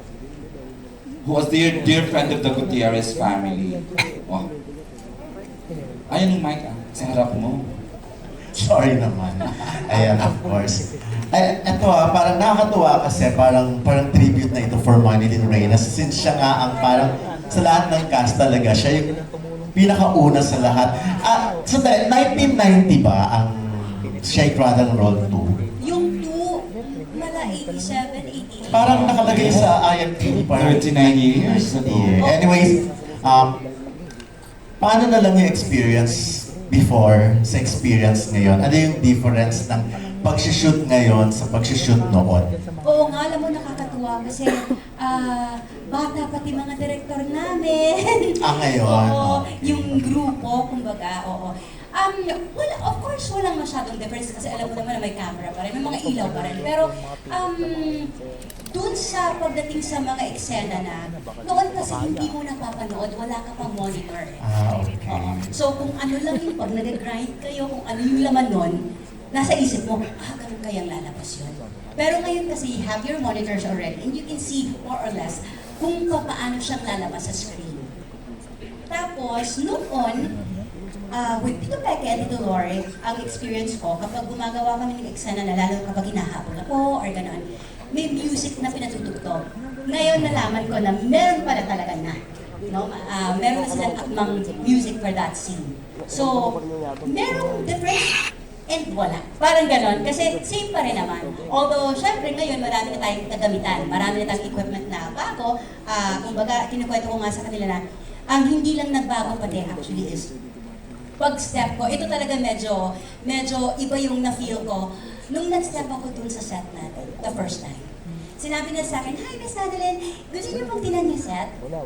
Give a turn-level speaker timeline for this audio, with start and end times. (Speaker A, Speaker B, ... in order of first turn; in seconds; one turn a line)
Speaker A: 1.2-4.4
Speaker A: 6.1-7.7
Speaker B: 8.5-19.1
Speaker B: 19.7-25.6
Speaker C: 25.8-29.1
Speaker B: 28.7-33.5
Speaker A: 28.7-29.7
Speaker A: 30.2-32.2
Speaker C: 32.2-32.5
Speaker B: 34.8-42.5
Speaker C: 42.8-58.1
Speaker B: 48.4-50.1
Speaker C: 58.7-64.4
Speaker B: 64.4-65.5
Speaker C: 65.5-68.8
Speaker C: 69.3-77.8
Speaker C: 78.9-80.3
Speaker C: 81.1-98.2
Speaker B: 90.2-90.5
Speaker C: 98.7-110.3
Speaker C: 111.2-121.5